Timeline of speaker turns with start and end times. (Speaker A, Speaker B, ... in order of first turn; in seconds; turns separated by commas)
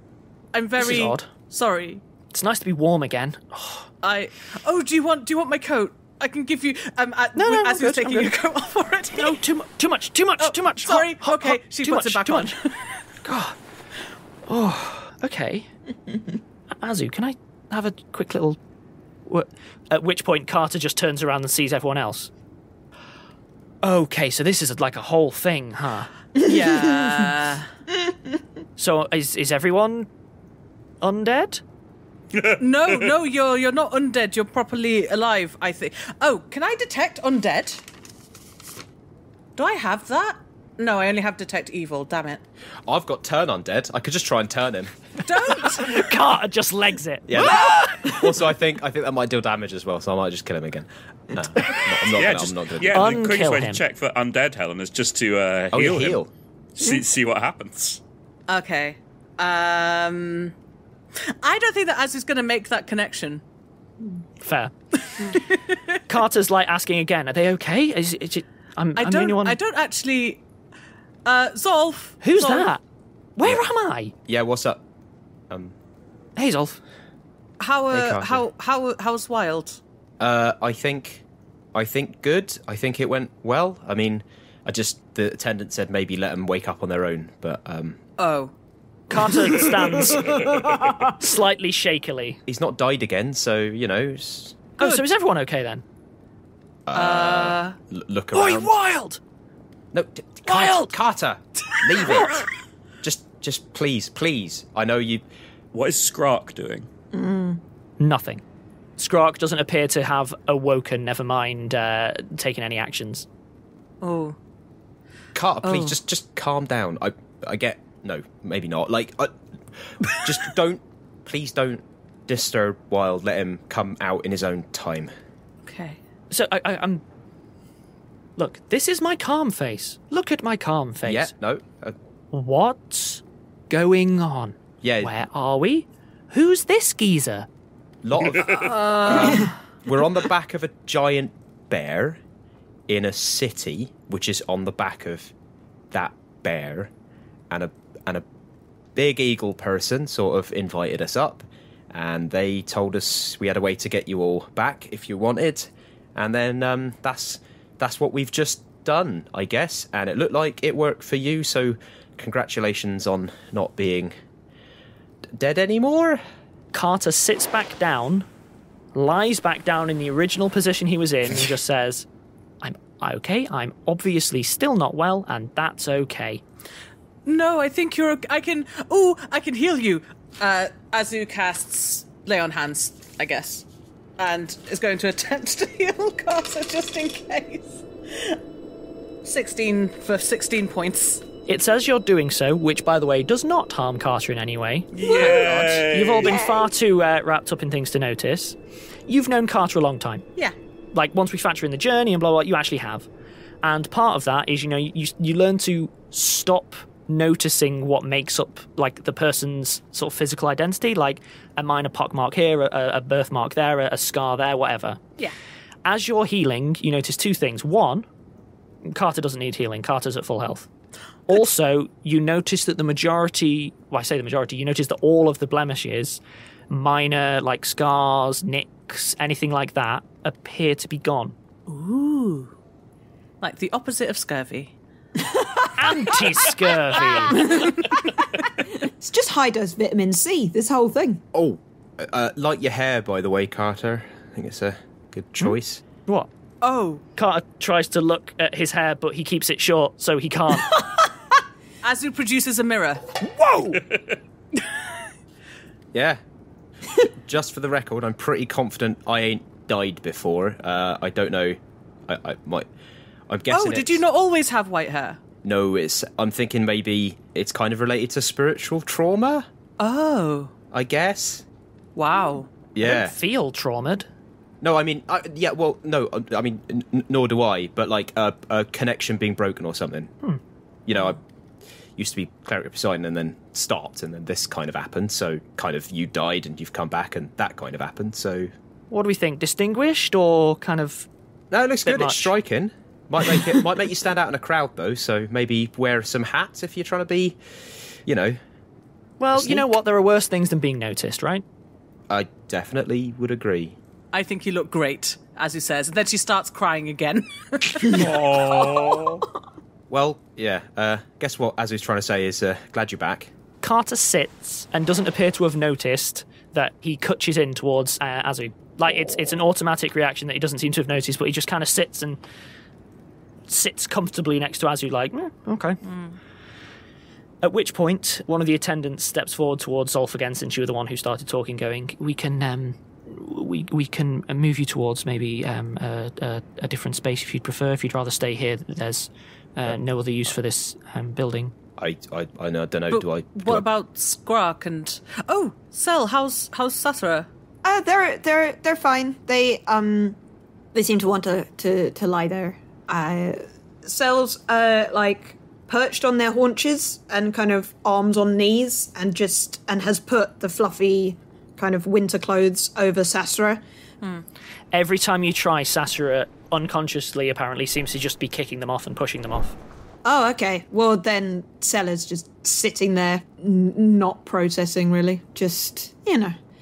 Speaker A: 0.5-2.0, Speaker B: 0.8-1.3, Speaker B: 2.3-3.9, Speaker A: 4.0-9.4, Speaker B: 7.3-8.4, Speaker B: 9.1-12.6, Speaker A: 10.4-13.1, Speaker B: 13.2-13.6, Speaker B: 14.5-15.7, Speaker B: 16.7-18.6, Speaker B: 19.2-22.3, Speaker B: 23.8-26.1, Speaker A: 26.4-27.7, Speaker B: 28.8-30.1, Speaker B: 31.0-31.6, Speaker C: 32.3-33.1, Speaker A: 32.6-37.8, Speaker A: 39.5-42.4, Speaker D: 42.9-44.9, Speaker A: 45.2-46.1, Speaker B: 45.7-48.3, Speaker D: 47.3-53.2, Speaker B: 51.6-51.9, Speaker C: 52.0-56.2, Speaker B: 52.9-53.8, Speaker D: 55.7-56.3, Speaker C: 56.7-58.0, Speaker A: 58.5-60.5, Speaker A: 61.3-63.4, Speaker B: 64.4-64.7, Speaker A: 64.9-66.0, Speaker B: 66.1-69.6, Speaker A: 69.0-70.4, Speaker A: 71.2-72.7, Speaker B: 72.2-72.8, Speaker B: 73.3-74.1, Speaker D: 74.3-74.8, Speaker D: 75.5-75.7, Speaker B: 76.3-76.8, Speaker A: 77.6-79.8, Speaker D: 77.9-78.4, Speaker D: 80.2-88.0, Speaker A: 88.2-88.5, Speaker B: 89.1-92.4, Speaker D: 92.5-94.7, Speaker B: 94.8-95.8, Speaker D: 96.9-98.8, Speaker A: 96.9-97.8, Speaker B: 98.3-99.2, Speaker D: 99.9-102.4, Speaker B: 100.5-100.9, Speaker D: 103.0-105.2, Speaker C: 105.7-106.9, Speaker E: 107.1-107.6, Speaker B: 108.0-108.4, Speaker B: 109.0-113.2, Speaker A: 114.0-114.4, Speaker D: 115.3-125.1, Speaker A: 115.6-115.9, Speaker A: 125.6-126.0, Speaker B: 126.3-127.0, Speaker B: 128.4-131.3, Speaker D: 131.0-131.9, Speaker B: 132.3-137.5, Speaker D: 134.8-135.1, Speaker D: 138.0-142.2, Speaker A: 138.5-139.6, Speaker D: 142.9-145.3, Speaker D: 145.9-146.9, Speaker D: 147.5-148.2, Speaker D: 148.9-164.1, Speaker D: 165.3-166.2, Speaker B: 166.7-168.3, Speaker B: 168.9-172.1, Speaker B: 172.6-176.4, Speaker A: 177.2-183.7, Speaker A: 184.2-188.4, Speaker A: 189.2-191.2, Speaker B: 191.5-195.2, Speaker C: 194.9-196.4, Speaker D: 195.1-195.9, Speaker B: 195.9-198.6, Speaker E: 196.2-196.6, Speaker B: 199.1-200.2, Speaker B: 200.9-203.1, Speaker B: 203.6-215.0, Speaker B: 215.8-218.1, Speaker B: 218.8-220.7, Speaker B: 221.3-231.3, Speaker A: 231.7-232.5, Speaker A: 233.4-234.8, Speaker E: 235.3-235.6, Speaker B: 235.8-237.5, Speaker A: 237.0-238.0, Speaker E: 237.3-238.0, Speaker E: 238.6-241.2, Speaker D: 241.3-245.8, Speaker A: 246.6-247.0, Speaker B: 247.2-250.8, Speaker A: 251.8-253.2, Speaker B: 253.2-253.8, Speaker C: 253.7-254.2, Speaker A: 254.5-254.8, Speaker D: 255.9-256.2, Speaker D: 256.9-262.7, Speaker D: 263.3-264.0, Speaker A: 263.5-265.2, Speaker D: 265.4-269.5, Speaker A: 269.8-270.5, Speaker D: 270.7-271.4, Speaker A: 271.9-272.5, Speaker D: 272.7-273.1, Speaker B: 272.8-274.1, Speaker D: 274.6-280.1, Speaker D: 280.9-281.2, Speaker D: 281.9-288.5, Speaker B: 288.9-291.1, Speaker D: 291.5-298.4, Speaker B: 291.8-292.3, Speaker B: 299.2-301.4, Speaker D: 299.3-299.6, Speaker D: 302.1-303.8, Speaker A: 304.1-308.1, Speaker C: 307.8-309.2, Speaker D: 309.9-313.3, Speaker B: 313.6-322.2, Speaker B: 323.5-325.8, Speaker A: 325.8-326.2, Speaker B: 327.4-341.5, Speaker D: 341.8-343.6, Speaker A: 342.9-347.3, Speaker E: 347.6-350.2, Speaker E: 350.7-363.6, Speaker B: 364.7-369.6, Speaker E: 370.0-376.4